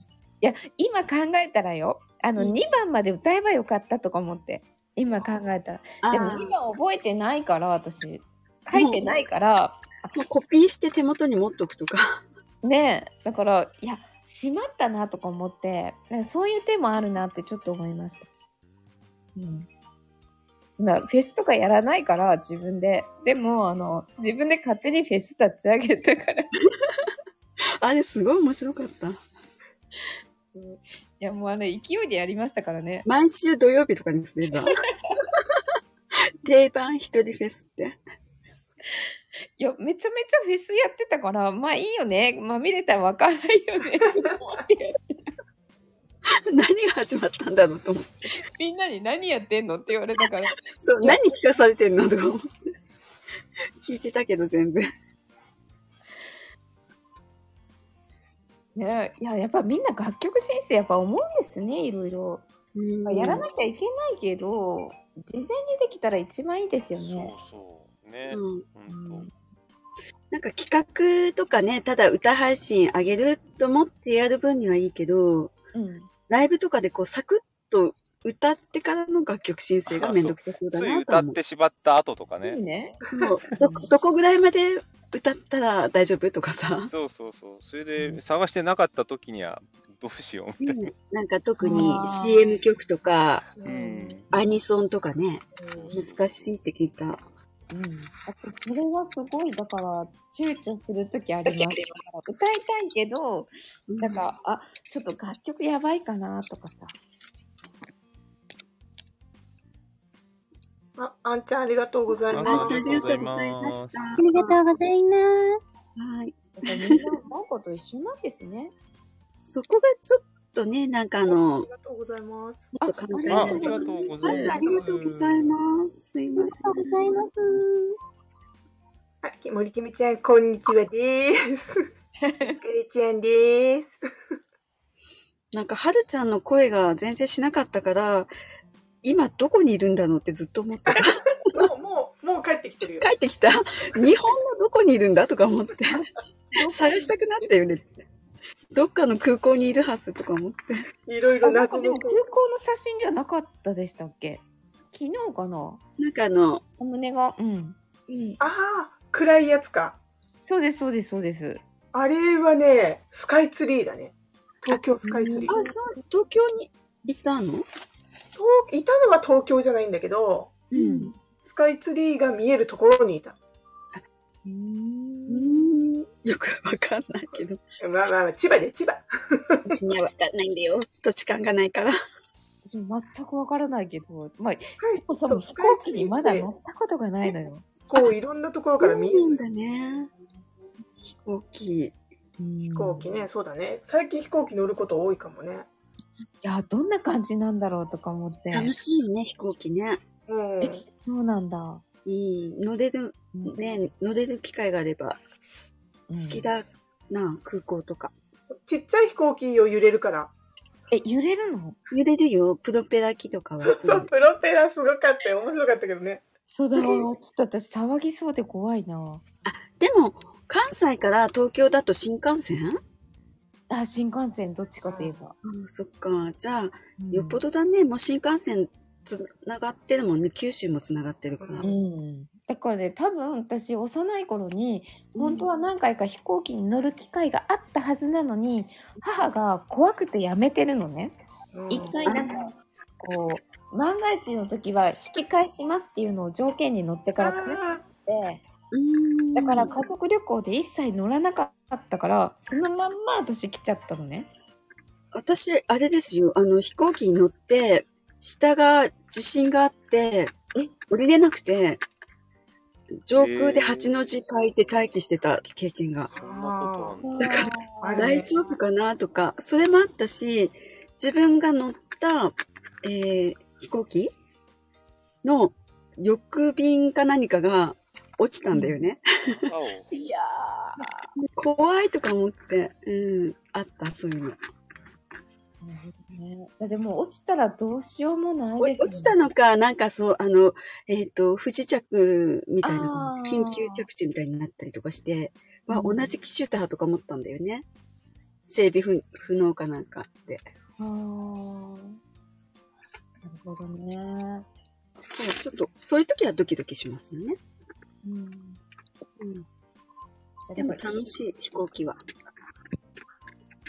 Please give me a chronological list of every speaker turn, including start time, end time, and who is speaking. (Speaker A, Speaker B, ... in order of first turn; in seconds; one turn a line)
Speaker A: 0.4-10.1
Speaker B: 6.0-6.5
Speaker B: 8.7-9.0
Speaker B: 10.1-12.2
Speaker A: 12.6-18.3
Speaker A: 19.4-19.7
Speaker A: 20.7-26.5
Speaker B: 26.8-27.1
Speaker B: 27.8-29.2
Speaker A: 31.2-33.1
Speaker B: 33.0-34.8
Speaker A: 34.6-35.2
Speaker B: 36.4-38.0
Speaker A: 39.6-45.2
Speaker B: 46.4-48.4
Speaker A: 48.4-51.2
Speaker B: 50.6-52.5
Speaker B: 53.8-54.9
Speaker A: 58.7-62.5
Speaker B: 62.7-63.5
Speaker A: 63.1-67.3
Speaker C: 67.0-69.3
Speaker B: 68.3-68.7
Speaker A: 68.9-69.3
Speaker B: 70.3-75.5
Speaker A: 75.7-76.1
Speaker B: 76.3-81.4
Speaker C: 79.9-82.6
Speaker A: 82.4-83.0
Speaker B: 83.0-86.9
Speaker A: 83.6-83.9
Speaker C: 86.9-90.9
Speaker B: 90.6-93.5
Speaker A: 91.6-92.6
Speaker D: 93.5-94.3
Speaker C: 93.6-94.3
Speaker B: 94.3-97.2
Speaker D: 95.6-96.1
Speaker C: 95.7-96.3
Speaker A: 97.7-106.9
Speaker B: 101.5-101.8
Speaker B: 103.9-104.3
Speaker D: 111.0-113.0
Speaker C: 112.3-114.1
Speaker B: 112.3-114.2
Speaker E: 114.2-115.6
Speaker B: 116.0-117.1
Speaker A: 116.6-118.7
Speaker B: 119.4-121.7
Speaker D: 121.3-122.7
Speaker A: 122.8-124.8
Speaker B: 122.8-127.1
Speaker C: 123.3-125.6
Speaker E: 123.8-124.2
Speaker E: 126.4-128.0
Speaker D: 129.2-131.8
Speaker A: 132.2-132.6
Speaker D: 132.5-133.9
Speaker B: 135.5-138.3
Speaker B: 139.0-141.7
Speaker D: 140.9-143.1
Speaker B: 143.0-146.0
Speaker B: 146.5-147.9
Speaker A: 146.6-147.1
Speaker B: 148.7-150.8
Speaker D: 151.1-152.2
Speaker A: 151.4-155.8
Speaker B: 156.0-156.6
Speaker A: 156.8-158.4
Speaker D: 158.4-160.0
Speaker A: 160.4-161.6
Speaker D: 161.9-165.6
Speaker A: 165.0-165.7
Speaker B: 165.5-167.7
Speaker D: 168.4-170.7
Speaker B: 170.7-171.1
Speaker A: 170.7-171.2
Speaker D: 171.4-173.4
Speaker A: 174.4-175.6
Speaker B: 175.3-177.6
Speaker D: 177.8-179.8
Speaker B: 179.7-182.0
Speaker A: 182.7-187.7
Speaker D: 184.6-186.5
Speaker D: 187.9-189.4
Speaker B: 188.8-190.1
Speaker B: 191.0-191.9
Speaker A: 192.4-193.2
Speaker D: 192.7-195.7
Speaker A: 196.4-198.7
Speaker B: 198.5-200.0
Speaker D: 200.3-200.8
Speaker A: 200.6-201.8
Speaker B: 202.1-205.2
Speaker A: 206.1-206.5
Speaker B: 206.1-208.1
Speaker D: 208.5-210.3
Speaker A: 210.9-211.8
Speaker B: 211.9-214.1
Speaker D: 213.6-216.2
Speaker A: 216.5-219.2
Speaker B: 219.4-222.8
Speaker A: 223.7-225.3
Speaker D: 224.8-225.2
Speaker B: 225.4-231.7
Speaker A: 227.0-227.4
Speaker D: 231.4-231.7
Speaker A: 231.6-241.2
Speaker B: 235.2-235.4
Speaker D: 241.5-242.0
Speaker A: 241.7-248.4
Speaker B: 242.1-242.4
Speaker D: 247.2-247.8
Speaker B: 248.7-249.8
Speaker A: 249.4-254.3
Speaker B: 255.1-260.4
Speaker B: 260.9-261.8
Speaker B: 263.1-266.1
Speaker C: 263.1-264.1
Speaker C: 266.1-267.5
Speaker D: 266.1-267.0
Speaker A: 267.0-268.3
Speaker B: 267.2-274.1
Speaker D: 267.8-268.3
Speaker B: 275.2-279.5
Speaker C: 279.4-279.9
Speaker A: 279.9-281.1
Speaker B: 281.2-284.4
Speaker A: 285.6-289.1
Speaker B: 288.6-297.6
Speaker A: 292.6-293.8
Speaker A: 295.7-296.1
Speaker B: 298.5-300.4
Speaker A: 300.8-302.0
Speaker A: 303.2-304.4
Speaker B: 305.1-307.4
Speaker A: 308.0-308.6
Speaker B: 309.2-309.4
Speaker A: 310.5-310.8
Speaker B: 310.6-312.0